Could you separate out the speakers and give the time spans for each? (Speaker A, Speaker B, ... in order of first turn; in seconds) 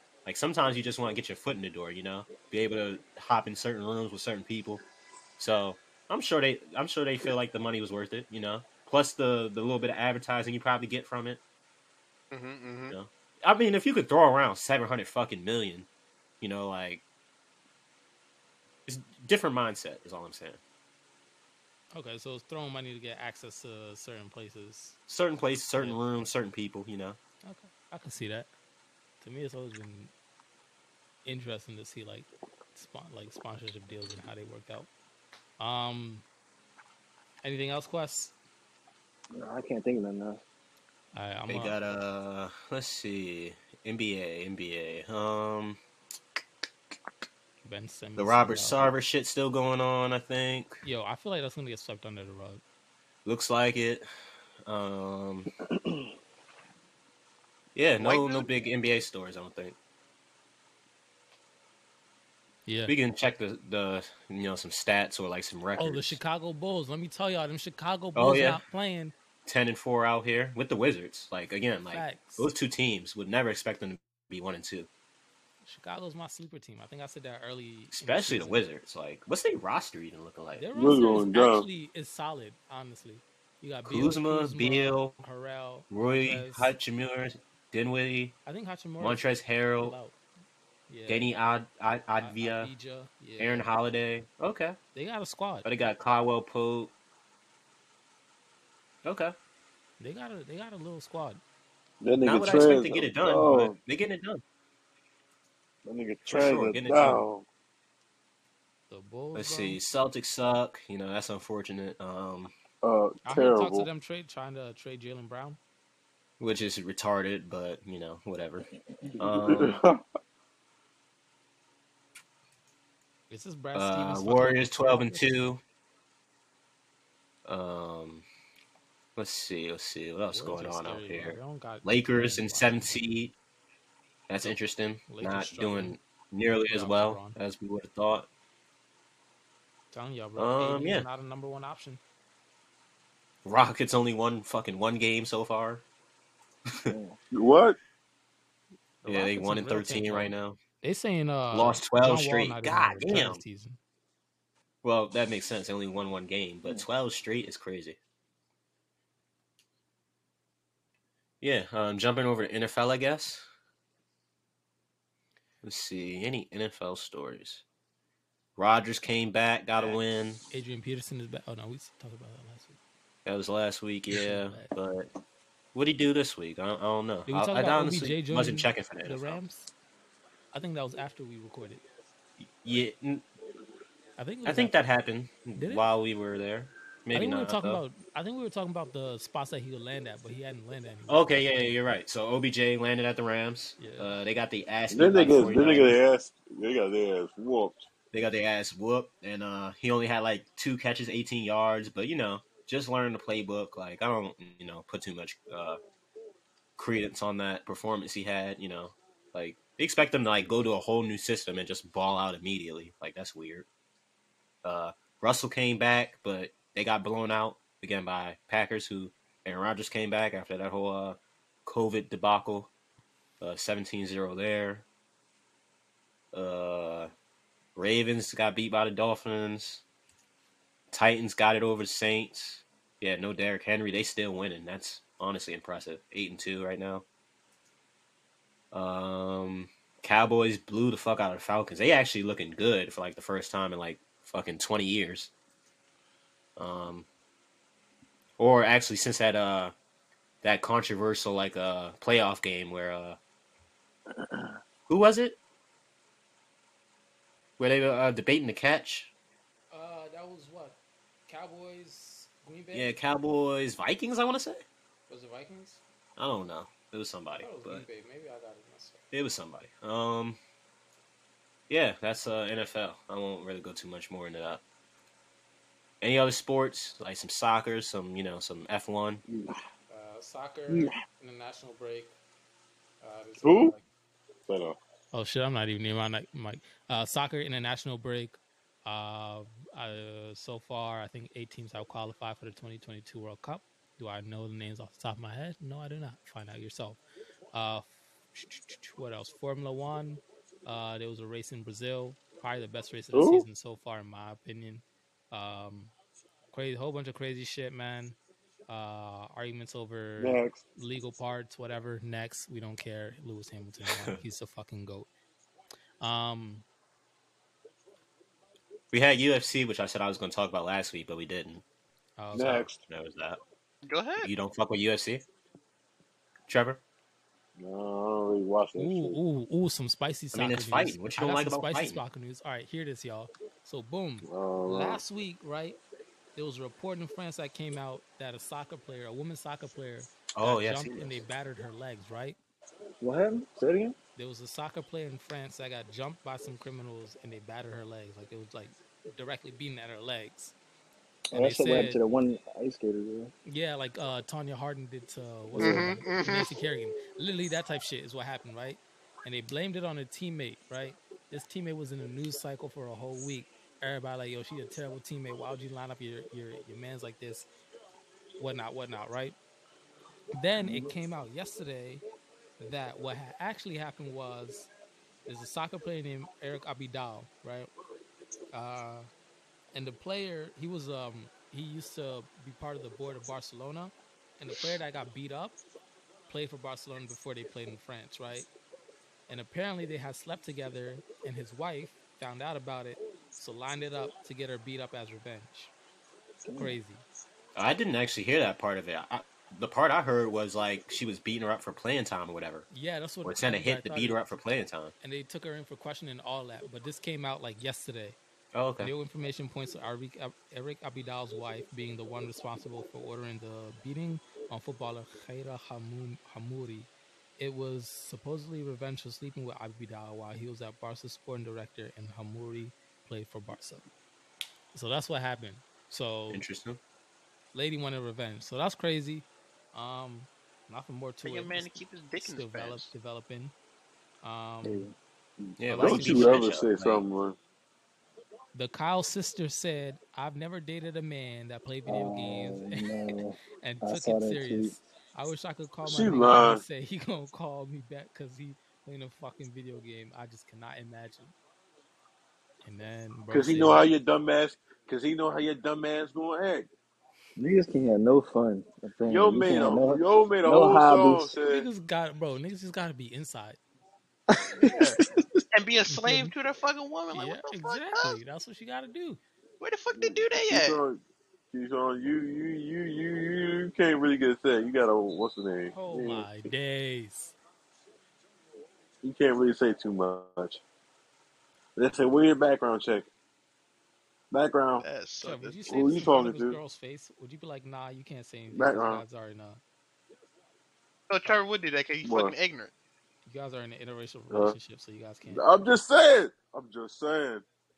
Speaker A: 0.2-4.8, 5.4-11.4, 12.9-15.9, 16.4-17.0, 18.9-20.6, 25.1-27.2, 41.5-45.8, 48.2-50.8, 53.2-54.0, 54.6-55.5, 57.7-59.8, 62.9-66.2, 68.1-68.6, 69.5-74.9, 77.9-80.7, 83.8-85.2, 85.9-88.3, 89.0-90.0, 91.1-92.7, 93.4-94.8, 95.6-96.9, 99.0-99.3, 102.2-104.4, 106.3-107.2, 109.3-112.5, 116.4-119.8, 123.7-125.6, 127.5-128.2, 129.2-133.3, 134.3-138.3, 140.3-141.1, 143.4-145.8, 146.7-146.9, 149.0-150.6, 151.5-153.4, 154.8-158.0, 161.4-163.4, 165.6-167.6, 168.6-170.4, 173.2-175.1, 175.7-179.4, 182.4-183.2, 184.4-187.8, 191.1-196.0, 198.1-205.8, 206.8-213.7, 214.6-222.7, 223.4-224.8, 226.3-227.1, 227.8-229.8, 230.9-237.0, 238.7-245.3, 246.6-247.1, 248.4-249.7, 250.4-253.2, 254.9-255.4, 257.6-259.1, 262.7-264.6, 266.2-267.9, 269.1-270.4, 271.7-274.6, 276.0-279.2, 313.8-314.2, 318.9-321.6, 322.9-323.4, 324.2-325.2, 326.5-326.8, 330.3-332.0, 340.4-341.2, 397.5-402.7, 403.2-404.9, 408.5-408.9, 426.3-426.8, 435.6-437.0
Speaker B: 12.3-12.9, 58.0-58.5, 323.8-324.3, 355.6-356.5, 431.2-432.9, 464.6-465.0, 465.5-468.2, 469.6-470.8, 484.8-485.6, 491.1-492.7
Speaker C: 21.9-25.0, 25.7-26.0, 27.4-28.5, 29.2-30.1, 31.2-34.9, 35.6-36.2, 37.4-38.3, 41.1-41.8, 47.6-48.9, 50.8-52.6, 62.6-62.9, 65.8-69.1, 71.9-72.5, 75.6-78.6, 80.5-86.7, 88.5-90.2, 90.9-91.3, 92.2-93.7, 94.9-95.7, 100.0-101.4, 108.9-109.8, 113.2-115.6, 123.3-125.4, 130.3-133.0, 134.4-136.0, 136.6-137.4, 139.9-142.0, 149.0-153.8, 169.7-172.8, 174.1-174.7, 177.3-179.7, 180.5-181.8, 184.2-184.7, 185.6-185.9, 187.1-191.8, 193.8-194.2, 259.7-263.0, 265.1-265.8, 267.4-269.0, 279.9-282.1, 283.0-283.8, 285.1-297.0, 297.5-305.9, 306.5-308.1, 308.7-315.1, 316.0-316.6, 322.2-322.7, 328.8-335.8, 336.4-342.4, 344.1-350.5, 351.3-352.0, 353.4-367.5, 368.4-369.4, 370.3-372.0, 372.6-374.7, 375.3-377.7, 378.5-379.1, 379.7-385.6, 386.3-388.5, 389.3-395.7, 396.5-397.0, 402.7-404.2, 405.0-408.2, 408.8-423.8, 424.7-426.4, 427.5-433.5, 434.2-434.9, 435.7-436.5, 438.5-451.3, 452.6-453.9, 461.4-463.6, 465.9-466.3, 467.1-469.2, 475.7-477.3, 485.2-489.6, 493.2-495.4
Speaker D: 39.3-40.4, 146.9-147.1, 343.0-343.9, 351.3-353.3, 355.5-355.9, 370.6-370.9, 396.4-396.8, 434.6-434.9, 441.9-444.8, 457.4-461.3, 464.3-465.4
Speaker E: 80.7-81.7, 102.0-103.7, 105.8-107.4, 112.8-113.9, 119.2-120.0, 147.3-147.8, 194.9-197.9, 283.4-283.7, 284.5-284.8, 303.1-303.4, 310.2-310.6, 322.3-322.8, 327.6-329.2, 334.2-335.0, 435.5-437.4, 445.8-446.6, 453.3-456.7, 459.1-461.7, 469.9-476.5, 479.0-480.6, 481.8-483.1, 484.3-484.8, 485.7-486.6, 488.5-489.0, 492.0-492.3, 495.3-497.4